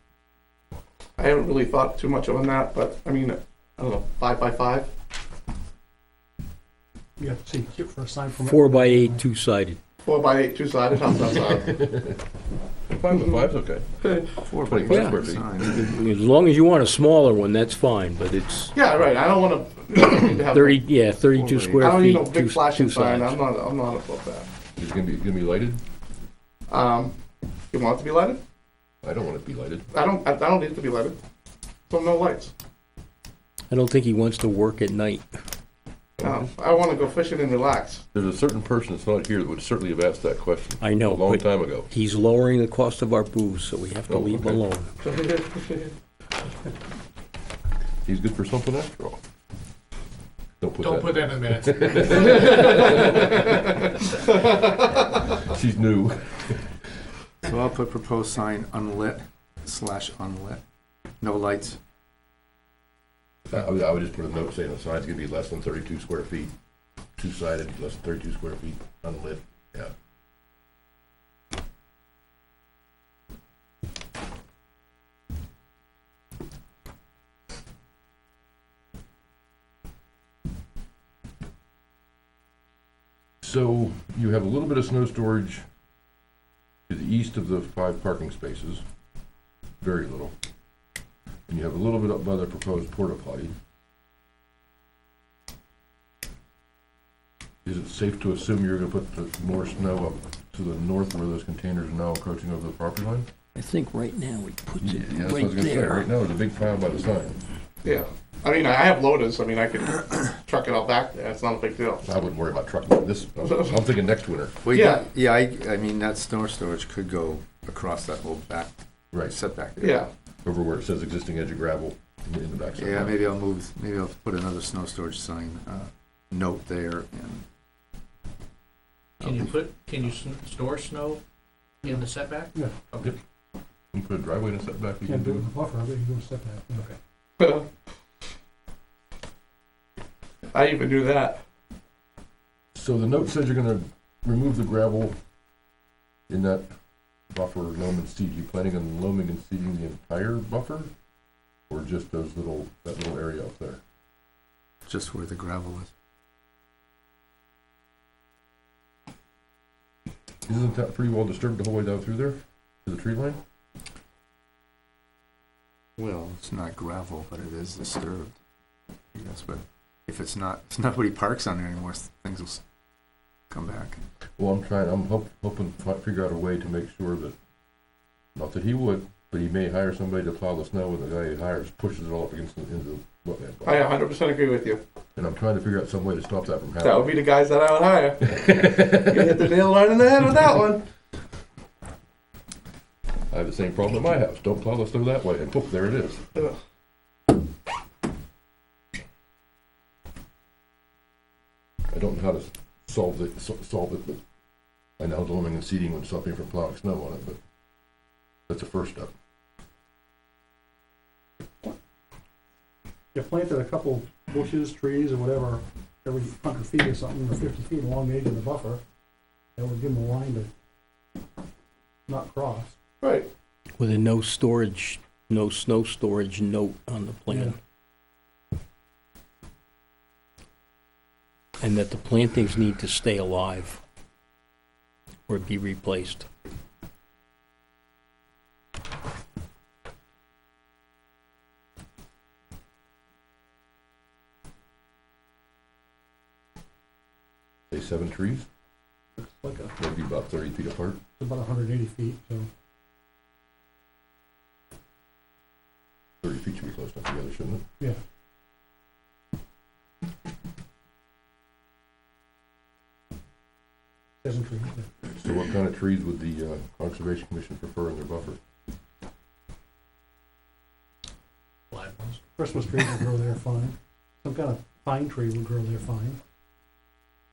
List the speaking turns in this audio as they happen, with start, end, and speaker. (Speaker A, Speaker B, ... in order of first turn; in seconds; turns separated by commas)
Speaker A: 1.2-4.9, Speaker B: 7.2-9.2, Speaker C: 8.4-9.8, Speaker A: 10.0-11.8, Speaker D: 11.7-12.2, Speaker D: 12.9-15.7, Speaker A: 14.0-14.3, Speaker E: 14.4-15.8, Speaker C: 14.9-18.7, Speaker A: 18.7-20.8, Speaker C: 20.4-23.4, Speaker E: 21.3-21.9, Speaker A: 21.8-24.5, Speaker D: 24.8-25.8, Speaker A: 26.7-27.1, Speaker A: 27.7-28.4, Speaker D: 29.0-29.9, Speaker A: 29.9-31.2, Speaker A: 31.9-32.5, Speaker C: 33.7-35.3, Speaker D: 36.2-36.5, Speaker A: 36.2-38.0, Speaker D: 38.1-41.9, Speaker C: 40.8-44.9, Speaker D: 44.1-44.6, Speaker A: 45.0-45.9, Speaker D: 48.0-49.2, Speaker D: 50.6-53.6, Speaker F: 50.8-53.3, Speaker A: 52.2-55.2, Speaker D: 55.4-56.6, Speaker E: 57.4-60.6, Speaker E: 61.2-61.8, Speaker D: 63.5-66.5, Speaker D: 67.2-69.9, Speaker D: 83.4-85.6, Speaker D: 86.9-88.8, Speaker D: 89.8-90.3, Speaker D: 91.5-93.5, Speaker D: 97.6-103.3, Speaker C: 103.5-106.1, Speaker D: 104.8-107.4, Speaker A: 107.8-112.0, Speaker D: 112.0-114.6, Speaker E: 114.6-120.1, Speaker A: 114.7-115.0, Speaker D: 119.1-119.4, Speaker A: 119.8-120.1, Speaker D: 120.4-123.4, Speaker E: 122.8-127.4, Speaker F: 129.2-131.2, Speaker F: 131.8-133.1, Speaker D: 133.9-135.5, Speaker B: 135.0-136.9, Speaker A: 137.4-137.7, Speaker A: 140.5-141.4, Speaker D: 142.7-145.1, Speaker D: 146.3-146.6, Speaker D: 147.3-150.9, Speaker D: 151.7-153.8, Speaker E: 154.8-155.9, Speaker D: 160.5-163.4, Speaker E: 166.0-168.3, Speaker E: 169.1-172.6, Speaker E: 173.5-174.0, Speaker D: 174.4-177.3, Speaker D: 178.3-183.9, Speaker A: 183.6-184.8, Speaker D: 185.2-187.2, Speaker A: 186.8-190.8, Speaker D: 188.6-189.2, Speaker D: 193.3-196.2, Speaker D: 201.9-204.2, Speaker D: 205.0-207.4, Speaker D: 208.5-209.1, Speaker B: 213.1-218.8, Speaker B: 219.6-220.5, Speaker B: 222.1-222.7, Speaker A: 223.0-223.3, Speaker C: 223.8-227.6, Speaker B: 227.3-227.5, Speaker C: 231.6-233.8, Speaker C: 235.3-236.2, Speaker D: 247.7-248.5, Speaker B: 249.2-249.7, Speaker D: 249.8-251.0, Speaker B: 251.2-252.5, Speaker D: 256.2-257.6, Speaker B: 264.2-264.9, Speaker D: 265.1-268.4, Speaker F: 271.7-272.2, Speaker B: 272.3-276.2